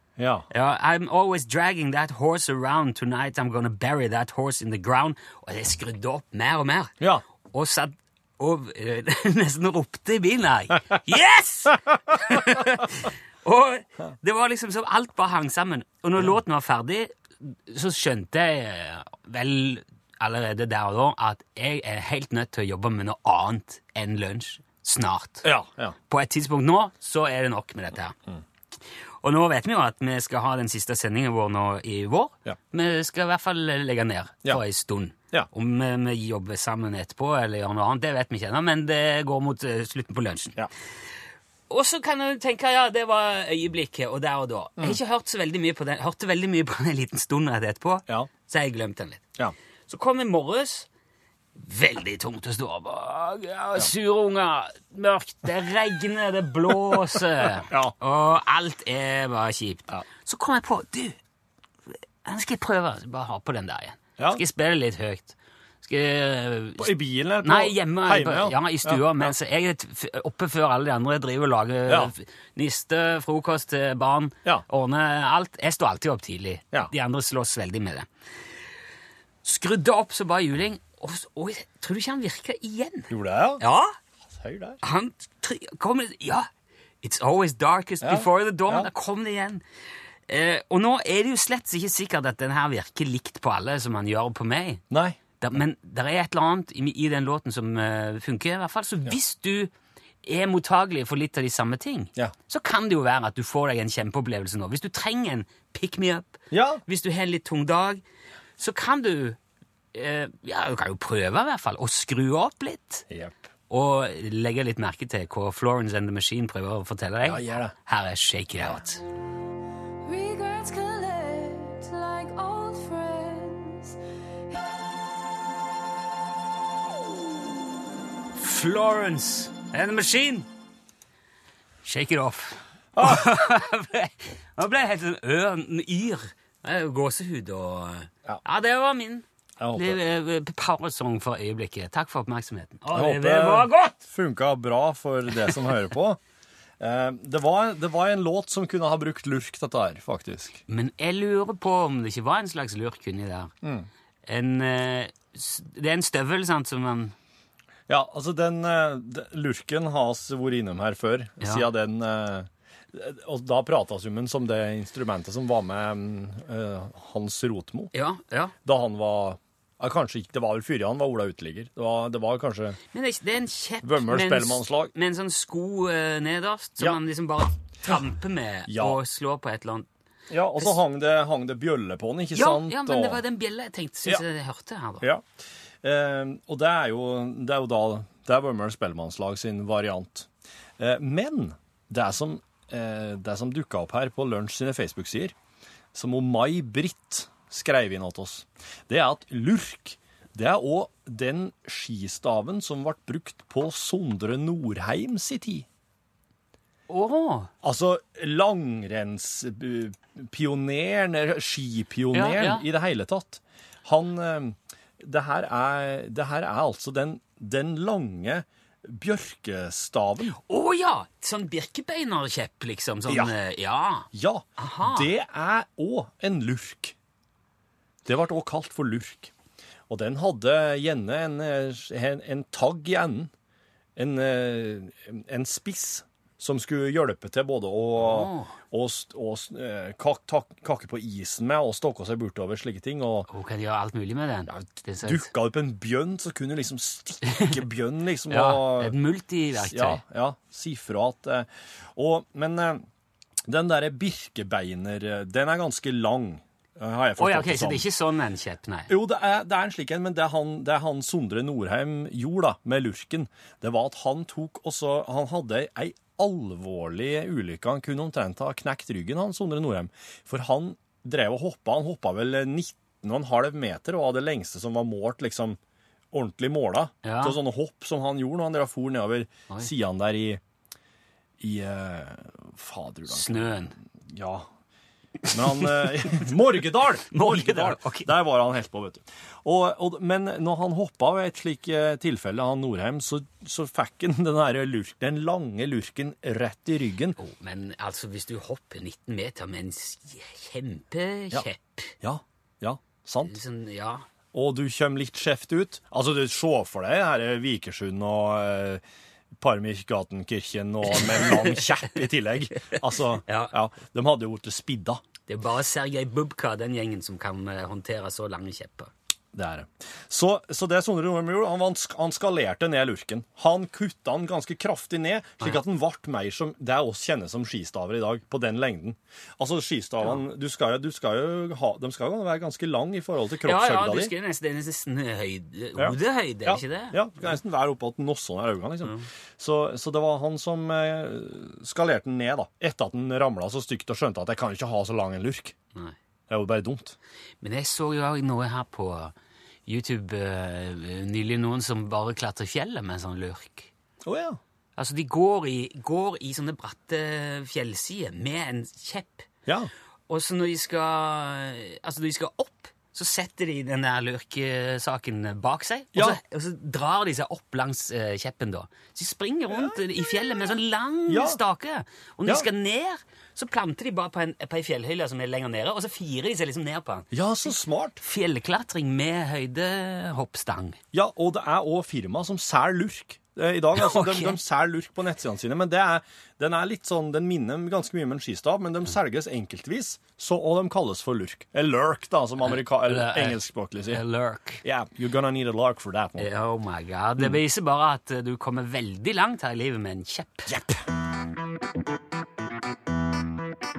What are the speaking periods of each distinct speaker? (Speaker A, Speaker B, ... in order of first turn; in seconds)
Speaker A: 0.2-0.5, 25.4-25.9, 57.1-58.0, 66.8-69.3, 71.9-72.1, 83.1-83.6, 84.3-84.8, 88.0-88.9, 94.9-95.2, 106.5-106.8, 113.1-113.4, 117.2-117.7, 132.9-133.4, 139.6-140.0, 142.9-146.2, 146.8-150.6, 153.6-153.9, 157.9-167.9, 168.6-172.8, 173.8-174.9, 178.7-179.0, 180.3-183.2, 185.8-195.3, 195.9-205.7, 207.6-220.4, 223.1-223.3, 224.1-226.9, 228.1-229.3, 229.9-233.3, 234.0-243.3, 244.5-248.9, 249.6-252.9, 253.5-257.9, 258.9-275.6, 276.1-280.4, 281.4-283.4, 284.0-284.5, 285.3-297.2, 302.0-303.4, 304.3-308.8, 309.4-315.0, 319.3-334.1, 335.8-345.6, 346.3-347.0, 354.0-354.4, 365.9-366.2, 369.5-369.8, 371.1-371.4, 377.1-378.0, 380.9-394.0, 394.6-396.3, 400.5-400.8
Speaker B: 0.5-7.0, 7.5-25.5, 26.1-28.2, 29.2-40.6, 41.7-49.2, 49.9-50.9, 51.6-61.2, 62.2-66.9, 67.4-78.1, 79.4-84.0, 84.8-86.5, 87.0-89.6, 90.3-94.8, 95.4-99.7, 100.2-108.0, 108.6-109.4, 109.9-113.1, 113.7-119.0, 128.4-130.5, 131.8-139.2, 139.8-144.0, 150.7-153.5, 154.3-157.2, 167.9-168.5, 172.9-179.9, 182.3-185.1, 206.9-207.5, 212.1-212.7, 220.3-225.1, 238.0-238.5, 243.3-245.3, 248.3-250.0, 257.2-258.9, 277.0-277.4, 283.1-283.8, 285.3-286.2, 287.1-288.1, 297.2-301.9, 303.3-304.1, 310.9-311.9, 313.2-313.5, 315.3-318.9, 333.4-337.3, 347.4-349.1, 349.7-353.7, 354.8-359.3, 360.1-380.8, 383.8-384.4, 392.4-394.6, 396.2-400.5
Speaker C: 120.0-124.0